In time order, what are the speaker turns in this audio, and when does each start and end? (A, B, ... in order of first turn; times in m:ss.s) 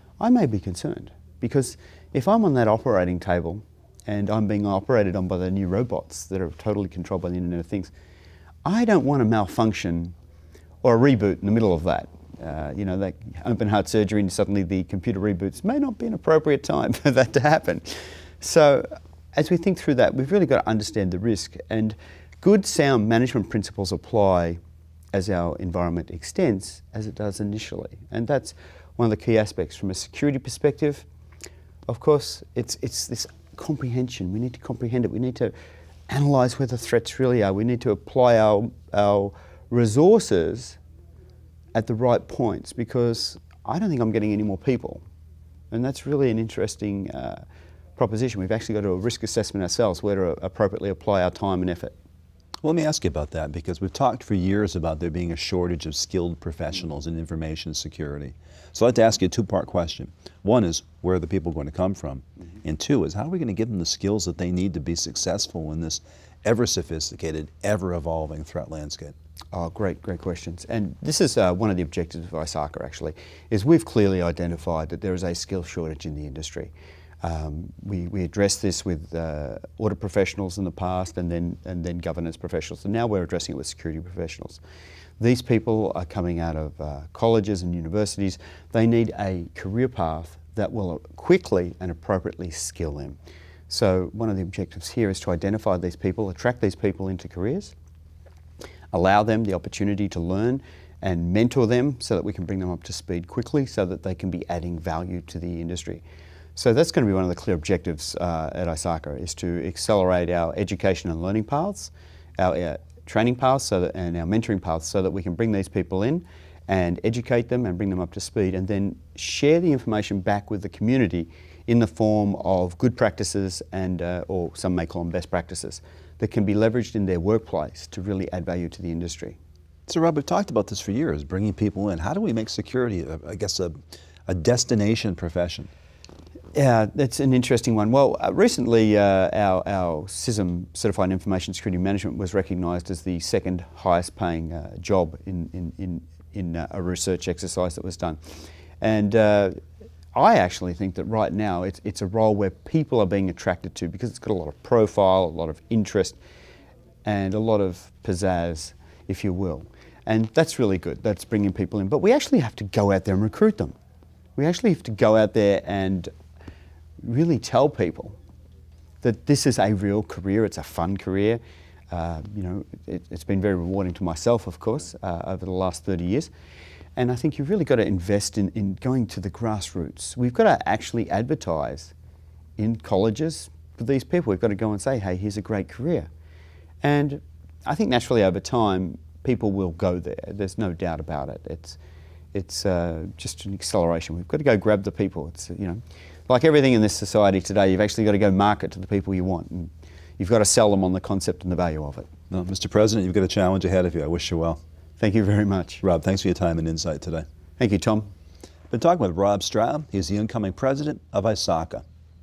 0:00.2-0:07.9 A
0:08.6-0:10.2 A
0:10.8-0:24.6 A
0:25.1-0:31.1 A
0:31.9-0:35.5 A
0:36.1-0:40.8 A
0:41.7-0:45.0 A
0:45.7-0:47.4 A
0:48.0-0:52.0 A
0:52.6-1:09.1 B
1:09.5-1:16.7 A
1:17.2-1:24.6 A
1:25.2-1:33.2 A
1:33.7-1:37.8 A
1:38.9-1:46.0 A
1:46.6-2:09.4 A
2:09.9-2:15.7 B
2:16.6-2:28.2 A
2:28.8-2:29.6 A
2:30.1-2:36.2 A
2:37.0-2:43.8 A
2:44.4-2:46.1 A
2:47.0-2:48.2 A
2:49.0-2:56.3 A
2:57.0-3:01.9 A
3:02.6-3:06.1 A
3:06.8-3:11.8 A
3:12.3-3:22.1 A
3:22.3-3:24.6 B
3:25.0-3:25.8 A
3:25.8-3:27.3 B
3:27.6-3:28.1 A
3:28.7-3:31.8 B